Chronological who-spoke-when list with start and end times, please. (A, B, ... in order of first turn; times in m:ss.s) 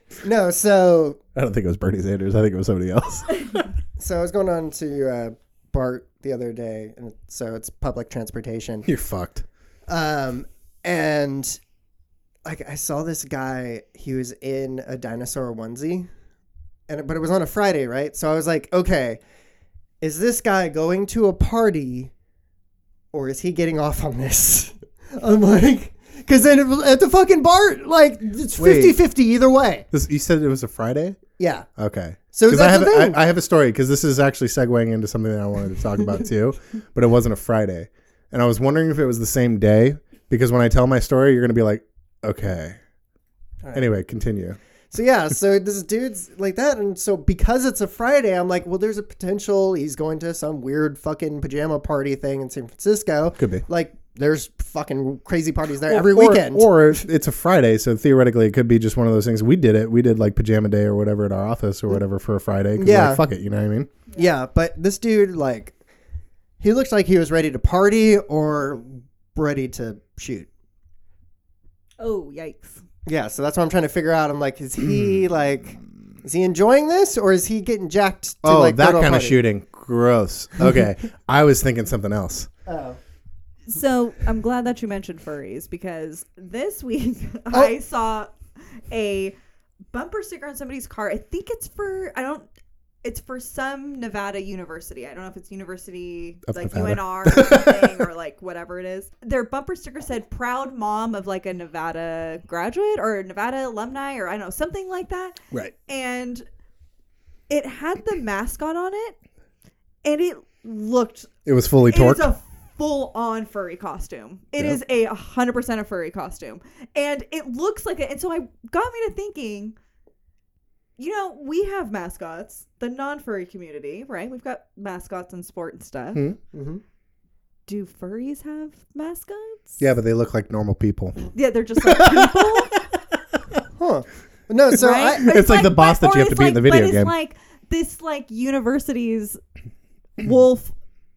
0:00.2-0:01.2 A
0:01.4-0:03.6 B
0:04.0-0:08.9 A
0:08.9-0:09.5 B
0:09.9-0:11.6 A
0:12.4-0:16.1 A
0:16.9-0:19.2 A
0:20.0-0:22.1 A
0:23.1-0:29.8 A
0:28.6-0:29.0 B
0:29.9-0:31.2 B
0:31.4-0:31.7 A
0:31.8-0:42.8 B
0:32.3-0:33.2 A
0:43.7-0:44.6 B
0:44.9-0:56.8 A
0:53.4-0:53.6 B
0:55.9-1:03.9 B
1:02.8-1:03.2 A
1:04.2-1:05.8 A
1:06.6-1:10.5 A
1:12.0-1:12.8 C
1:13.1-1:19.4 A
1:14.8-1:15.2 B
1:18.4-1:22.5 B
1:22.7-1:23.0 A
1:23.7-1:29.4 C
1:29.9-1:32.5 C
1:33.0-1:46.5 C
1:36.5-1:38.0 B
1:47.5-1:49.2 C
1:50.0-1:51.3 C
1:51.4-1:52.3 B
1:51.9-1:59.8 C
2:01.0-2:06.2 C
2:06.5-2:06.8 A
2:07.7-2:09.8 C
2:09.8-2:11.3 B
2:11.3-2:12.7 C
2:11.8-2:12.6 B
2:13.8-2:15.3 A
2:14.7-2:19.4 C
2:15.2-2:17.1 B
2:20.2-2:20.8 C